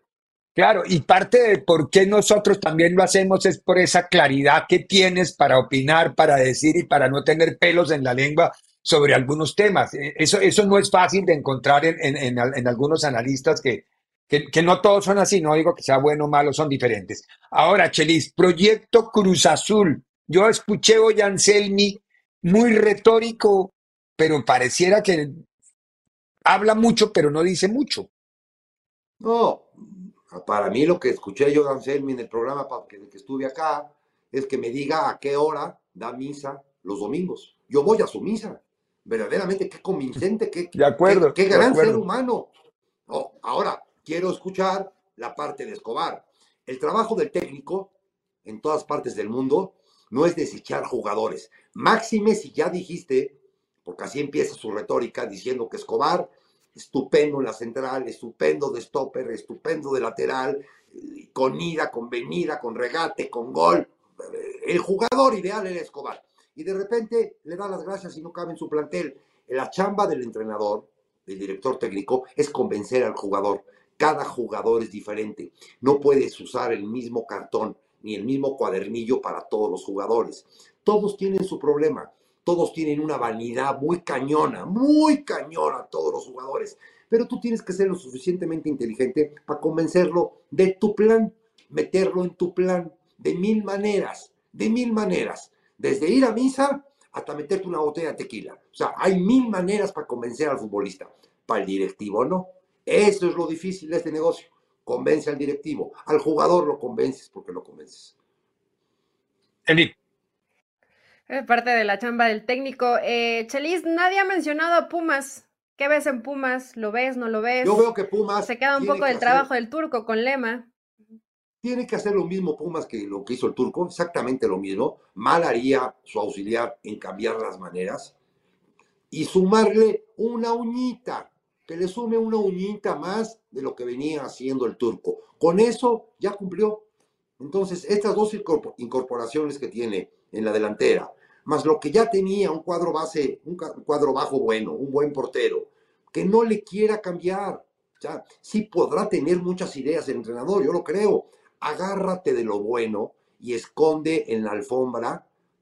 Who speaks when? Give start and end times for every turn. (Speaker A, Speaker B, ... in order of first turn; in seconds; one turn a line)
Speaker A: 0.5-25.4
Speaker A: 26.4-28.1
Speaker B: 29.2-42.5
Speaker A: 40.7-42.0
Speaker B: 43.1-47.9
Speaker B: 48.4-108.1
Speaker A: 109.7-109.9
Speaker C: 111.3-117.9
Speaker B: 117.6-119.5
Speaker C: 118.4-120.7
Speaker B: 121.6-128.1
Speaker B: 129.1-136.8
Speaker B: 137.4-155.2